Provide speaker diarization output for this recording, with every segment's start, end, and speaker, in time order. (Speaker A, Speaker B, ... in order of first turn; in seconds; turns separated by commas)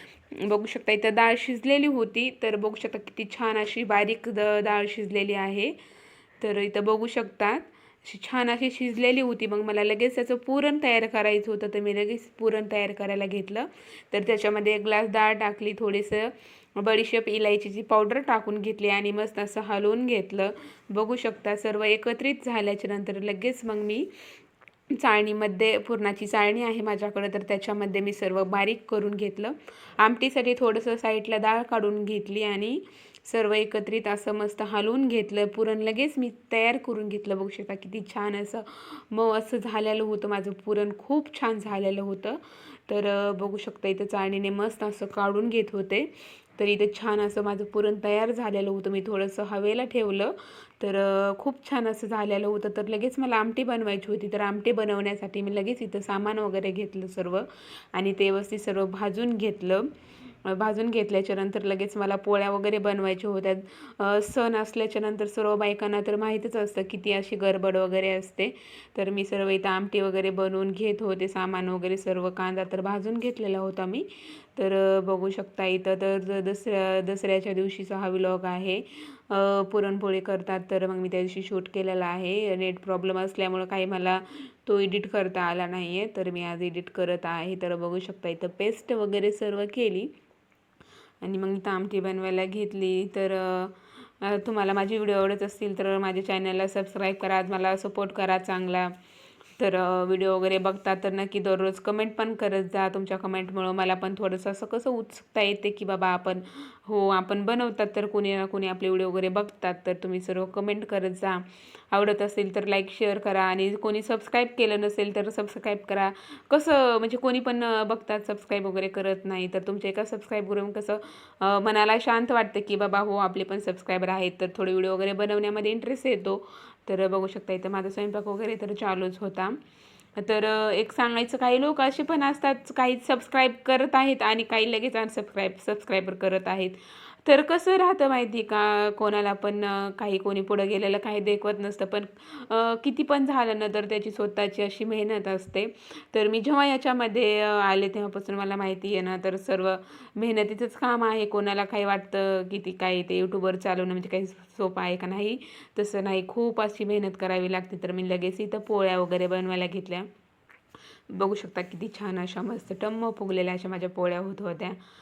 Speaker A: 0.3-5.7, Speaker A: 6.4-24.1, Speaker A: 24.9-59.9, Speaker A: 60.5-90.1, Speaker A: 91.2-98.9, Speaker A: 99.6-129.6, Speaker A: 130.2-160.1, Speaker A: 161.1-164.8